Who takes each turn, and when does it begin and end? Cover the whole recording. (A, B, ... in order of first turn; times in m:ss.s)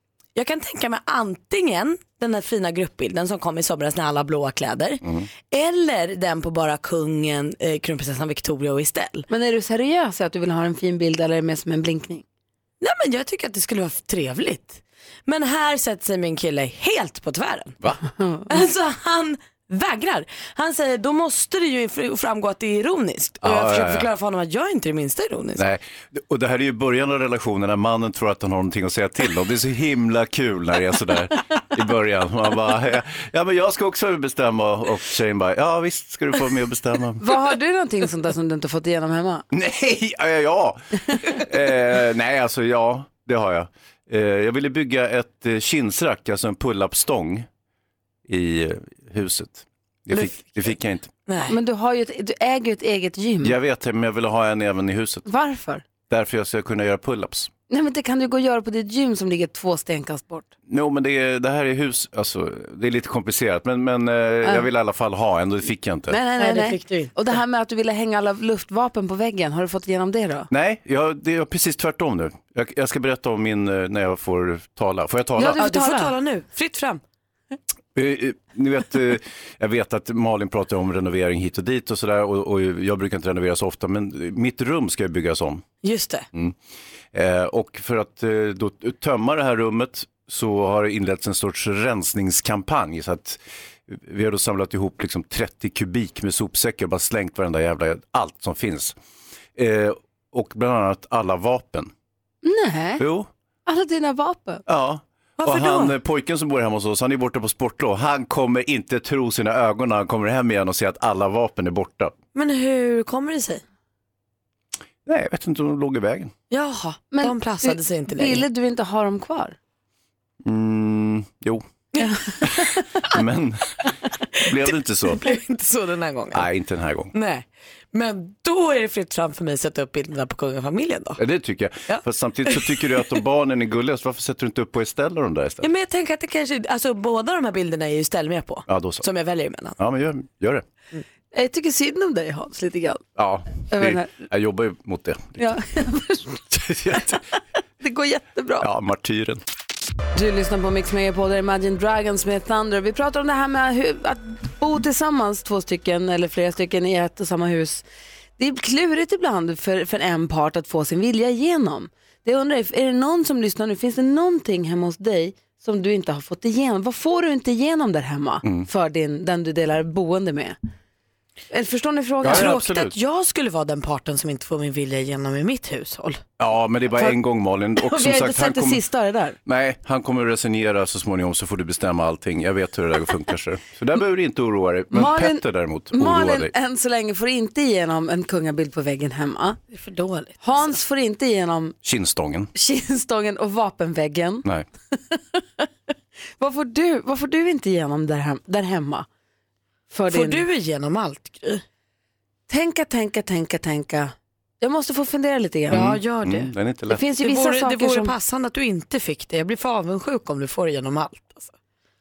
0:00.3-0:09.3 A
0:05.0-0:05.3 B
0:09.3-0:12.2 C
0:12.8-0:17.8 A
0:18.2-0:18.4 C
0:18.5-0:25.6 A
0:23.4-0:24.1 B
0:25.6-0:37.2 B
0:37.2-0:39.4 C
0:39.5-0:47.5 B
0:48.3-0:51.1 B
0:50.1-0:50.7 A
0:51.3-0:51.6 A
0:51.5-0:53.6 C
0:53.4-0:55.2 B
0:55.2-0:55.8 C
0:56.1-0:57.5 B
0:57.7-1:00.5 C
1:00.7-1:06.2 B
1:06.1-1:10.5 C
1:06.4-1:07.2 A
1:10.5-1:15.6 B
1:15.4-1:16.2 C
1:15.4-1:17.0 A
1:17.9-1:25.6 B
1:25.8-1:26.2 A
1:27.1-1:39.0 B
1:39.6-1:41.9 B
1:42.4-1:43.0 C
1:43.0-1:43.3 B
1:43.6-1:44.6 C
1:44.7-1:52.2 B
1:45.4-1:45.9 A
1:52.3-1:53.6 A
1:55.0-1:56.3 B
1:56.5-1:58.4 A
1:57.1-1:59.6 C
2:00.4-2:01.6 B
2:02.0-2:02.8 A
2:02.4-2:03.7 B
2:04.4-2:05.3 B
2:05.1-2:06.5 A
2:06.3-2:07.1 B
2:07.1-2:11.2 A
2:11.2-2:15.7 B
2:11.9-2:12.8 A
2:15.6-2:19.8 A
2:18.7-2:19.0 B
2:19.8-2:20.6 B
2:21.3-2:23.0 C
2:23.2-2:25.4 B
2:23.7-2:24.2 C
2:25.4-2:26.4 C
2:26.5-2:27.2 B
2:27.8-2:28.7 C
2:28.6-2:29.4 B
2:30.1-2:37.8 C
2:38.4-2:50.6 C
2:48.4-2:48.7 B
2:51.5-2:52.6 C
2:52.2-2:52.9 B
2:52.2-2:56.2 A
2:56.4-2:58.8 B
2:57.8-2:59.4 C
2:59.4-3:06.5 B
3:04.9-3:09.6 C
3:09.7-3:10.7 A
3:10.4-3:11.8 C
3:11.8-3:12.5 B
3:12.5-3:14.4 C
3:15.1-3:15.6 C
3:16.4-3:19.1 C
3:19.9-3:20.4 C
3:20.1-3:21.6 A
3:22.5-3:25.9 C
3:25.7-3:26.5 A
3:25.7-3:27.0 B
3:26.9-3:28.1 C
3:27.2-3:31.5 A